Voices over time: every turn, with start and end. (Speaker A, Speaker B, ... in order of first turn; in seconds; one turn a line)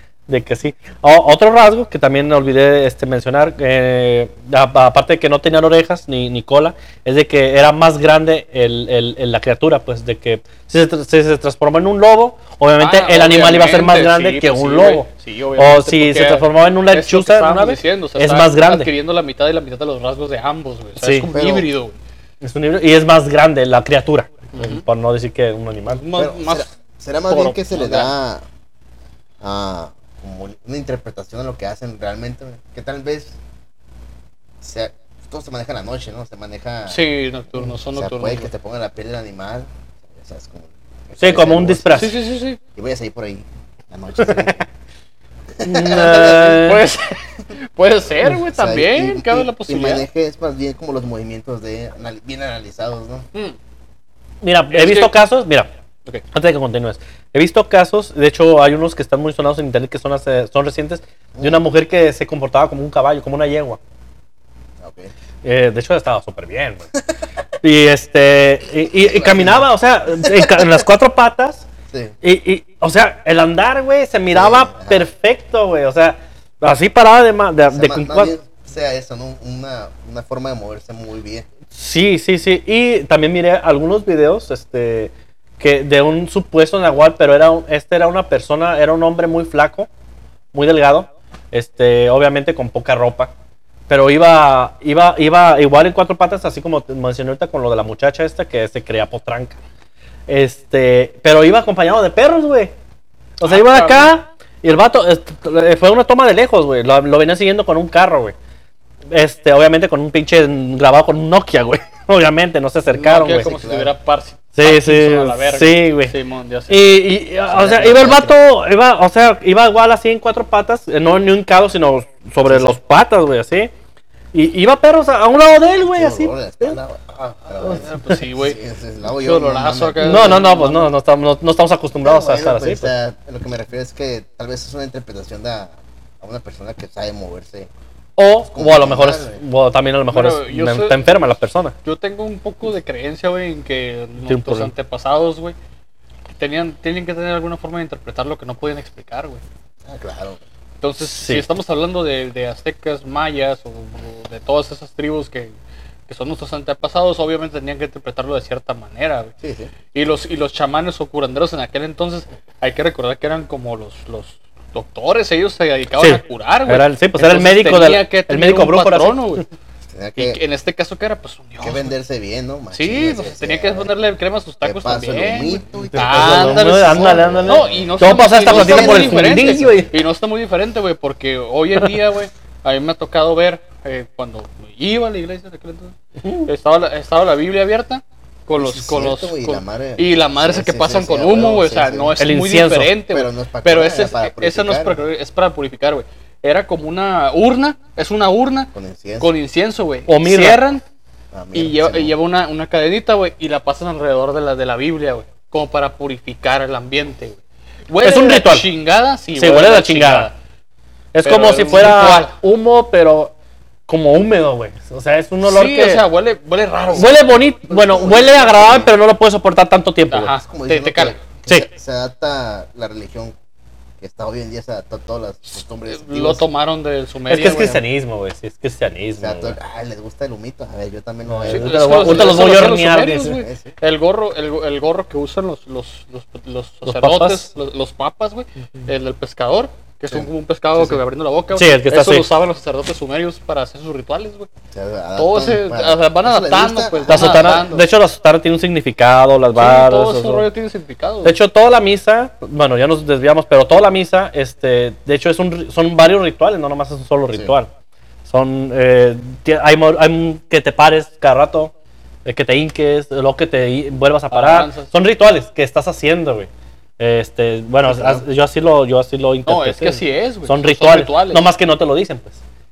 Speaker A: 0.3-18.9
Speaker B: 12.8-22.0
Speaker A: 21.0-21.3
Speaker C: 21.3-21.7
Speaker A: 22.4-26.0
Speaker B: 24.5-24.8
Speaker B: 25.9-26.7
Speaker C: 26.1-28.4
Speaker B: 27.3-28.1
Speaker C: 29.4-33.4
Speaker C: 34.6-37.0
Speaker B: 36.9-38.5
Speaker C: 37.9-42.1
Speaker A: 41.2-42.1
Speaker B: 41.9-42.6
Speaker C: 42.7-44.6
Speaker A: 44.2-44.5
Speaker C: 45.6-46.6
Speaker A: 45.6-46.9
Speaker B: 46.1-50.0
Speaker C: 48.5-53.2
Speaker A: 54.4-55.7
Speaker B: 54.7-55.1
Speaker A: 56.3-63.8
Speaker C: 61.4-61.6
Speaker C: 64.8-65.1
Speaker A: 65.4-66.8
Speaker A: 67.6-71.7
Speaker C: 68.9-69.7
Speaker C: 70.2-70.7
Speaker C: 71.9-72.2
Speaker A: 72.2-78.3
Speaker C: 74.3-75.0
Speaker C: 77.7-81.5
Speaker A: 81.7-89.9
Speaker A: 90.5-93.3
Speaker A: 93.9-99.6
Speaker A: 100.3-102.7
Speaker A: 103.4-108.3
Speaker B: 103.4-104.1
Speaker A: 109.1-113.5
Speaker B: 112.9-117.2
Speaker C: 113.2-113.9
Speaker A: 114.5-116.1
Speaker A: 116.7-123.7
Speaker C: 117.5-118.3
Speaker C: 122.4-122.7
Speaker A: 124.3-126.8
Speaker C: 125.8-130.5
Speaker A: 127.6-128.1
Speaker B: 127.6-130.9
Speaker A: 130.0-132.9
Speaker C: 132.0-137.7
Speaker A: 138.2-141.7
Speaker C: 138.4-139.4
Speaker B: 140.1-141.0
Speaker B: 141.8-145.6
Speaker A: 144.3-144.7
Speaker B: 146.3-149.4
Speaker C: 149.8-150.4
Speaker B: 150.8-155.5
Speaker A: 151.1-151.4
Speaker B: 156.1-159.3
Speaker C: 159.4-159.7
Speaker B: 159.9-169.4
Speaker A: 166.0-169.4
Speaker C: 169.9-170.4
Speaker B: 170.2-171.9
Speaker C: 171.6-173.9
Speaker B: 172.7-200.8
Speaker C: 174.6-179.9
Speaker A: 175.9-179.9
Speaker A: 186.2-186.5
Speaker C: 188.6-192.1
Speaker A: 192.2-192.9
Speaker C: 193.1-195.1
Speaker C: 198.7-199.3
Speaker A: 200.1-200.6
Speaker C: 201.3-202.1
Speaker B: 201.5-210.3
Speaker A: 208.0-208.7
Speaker A: 209.3-210.3
Speaker A: 211.1-213.3
Speaker B: 211.2-212.3
Speaker A: 213.9-216.0
Speaker B: 215.4-217.1
Speaker A: 216.9-220.3
Speaker C: 217.0-218.9
Speaker B: 220.1-221.2
Speaker C: 220.4-223.3
Speaker C: 224.0-226.4
Speaker B: 225.9-227.8
Speaker A: 227.3-229.6
Speaker C: 229.2-232.7
Speaker A: 231.3-233.4
Speaker B: 231.5-244.5
Speaker C: 233.3-233.7
Speaker A: 236.8-237.5
Speaker C: 240.1-241.0
Speaker A: 241.6-242.3
Speaker C: 244.7-247.6
Speaker B: 245.2-247.8
Speaker A: 247.1-250.4
Speaker B: 249.5-251.4
Speaker A: 251.2-257.7
Speaker A: 258.3-261.7
Speaker A: 262.2-272.4
Speaker B: 264.3-264.9
Speaker C: 267.9-268.2
Speaker B: 269.4-271.4